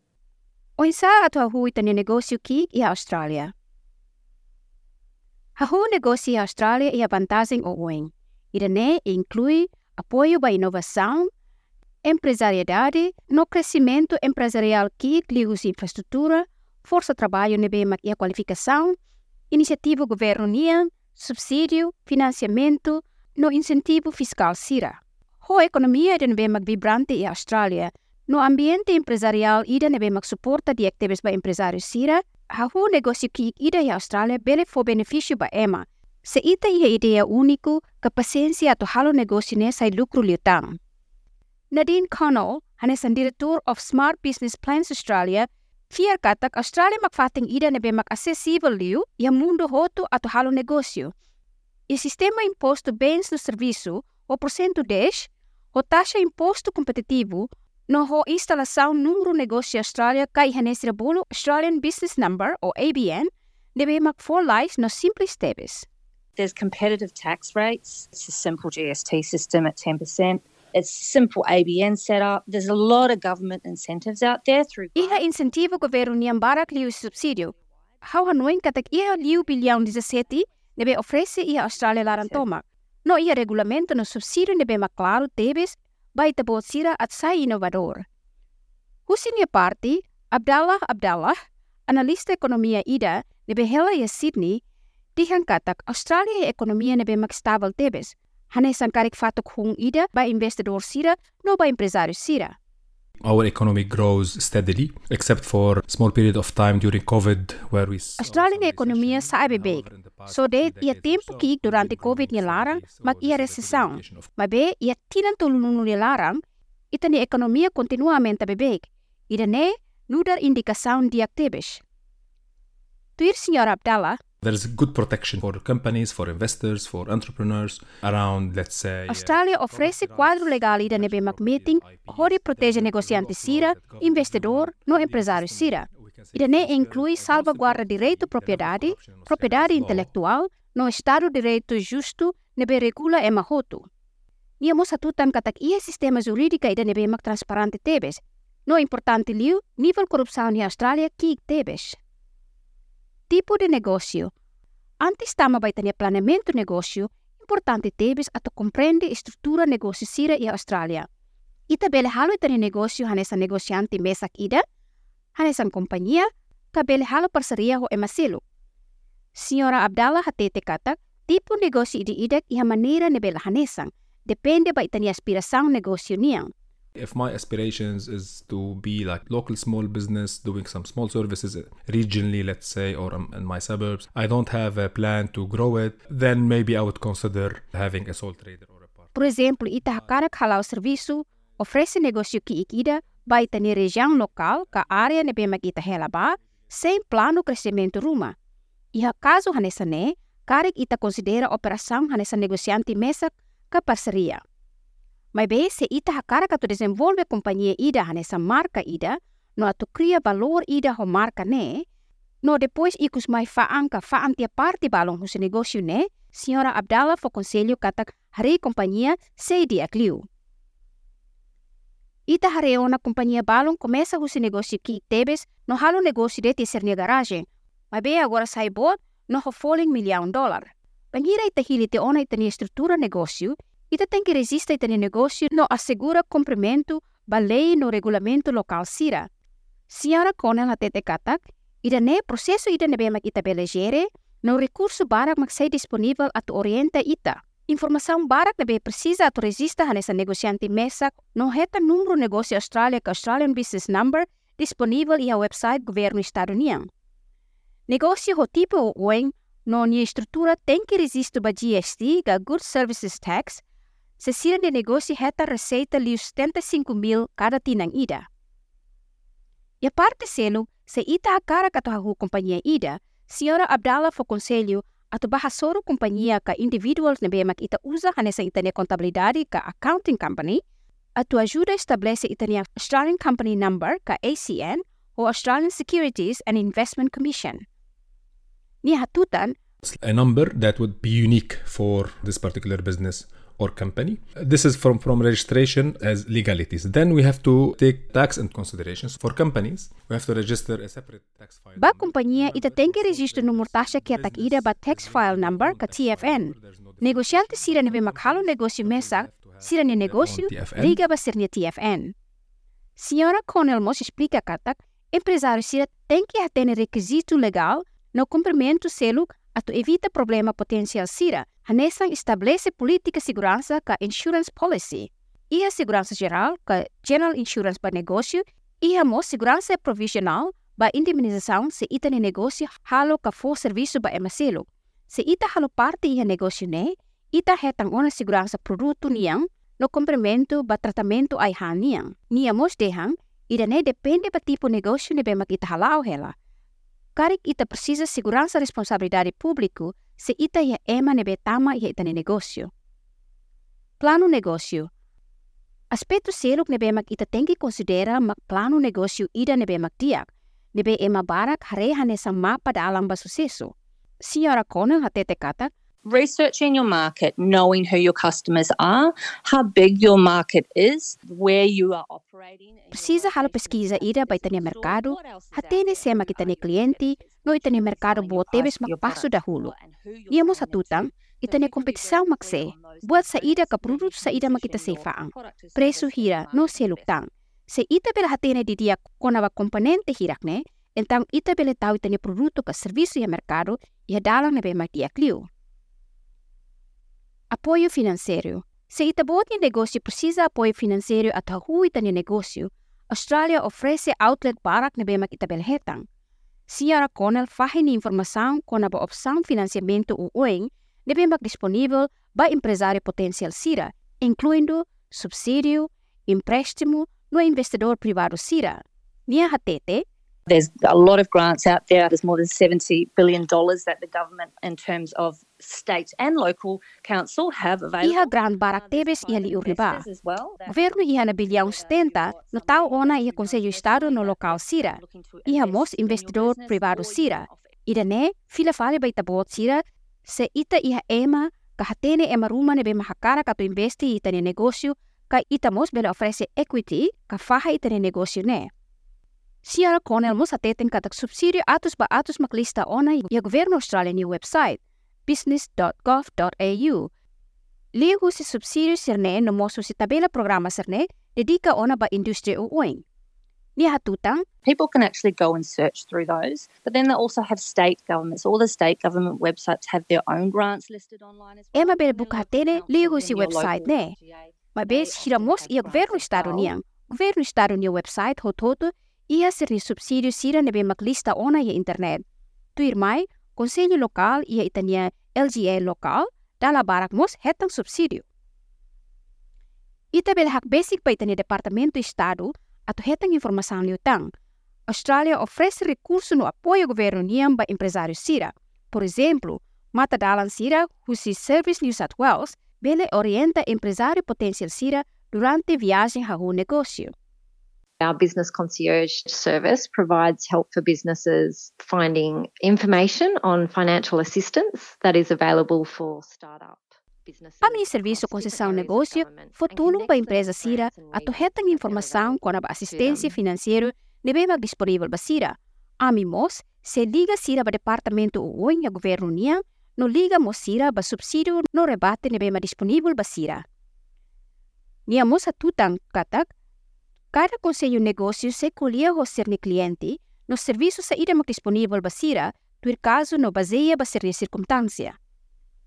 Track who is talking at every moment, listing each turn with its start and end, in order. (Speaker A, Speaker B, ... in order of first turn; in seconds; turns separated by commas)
Speaker A: 0.8-3.5, Speaker A: 5.6-11.3, Speaker A: 12.0-18.9, Speaker A: 19.5-40.8, Speaker A: 41.7-51.1, Speaker A: 51.9-65.9, Speaker B: 66.4-75.2, Speaker A: 75.0-88.0, Speaker B: 82.1-82.4, Speaker A: 89.1-91.3, Speaker A: 91.9-94.6, Speaker A: 95.2-102.5, Speaker C: 103.2-114.3, Speaker A: 108.2-116.4, Speaker A: 116.9-121.8, Speaker A: 123.2-124.2, Speaker C: 124.4-140.1, Speaker A: 129.1-143.9, Speaker A: 144.6-152.0, Speaker A: 153.3-154.3, Speaker A: 155.0-161.1, Speaker A: 161.7-164.6, Speaker A: 165.3-168.4, Speaker A: 169.3-176.5, Speaker C: 176.9-190.2, Speaker A: 189.1-198.3, Speaker A: 198.9-204.4, Speaker A: 205.3-211.8, Speaker A: 212.4-220.2, Speaker A: 222.3-239.3, Speaker A: 239.9-256.9, Speaker A: 257.9-263.6, Speaker A: 264.2-268.2, Speaker A: 269.8-280.6, Speaker A: 281.2-287.6, Speaker A: 288.8-289.6, Speaker C: 289.8-311.0, Speaker A: 301.8-312.1, Speaker A: 313.0-346.3, Speaker A: 347.1-352.7, Speaker A: 354.0-354.9, Speaker A: 355.9-365.7, Speaker B: 366.0-387.2, Speaker A: 372.9-379.7, Speaker A: 380.3-395.5, Speaker A: 397.5-406.0, Speaker A: 406.7-420.0, Speaker B: 420.5-437.7, Speaker A: 428.0-430.0, Speaker A: 430.7-448.7, Speaker A: 449.6-457.1, Speaker A: 457.9-463.0, Speaker A: 463.8-464.4, Speaker B: 464.6-476.7, Speaker A: 471.7-474.1, Speaker A: 474.7-482.2, Speaker A: 482.8-488.2, Speaker A: 490.1-494.3, Speaker A: 494.9-507.1, Speaker D: 508.0-523.4, Speaker A: 517.6-533.6, Speaker A: 535.1-536.5, Speaker A: 537.3-545.1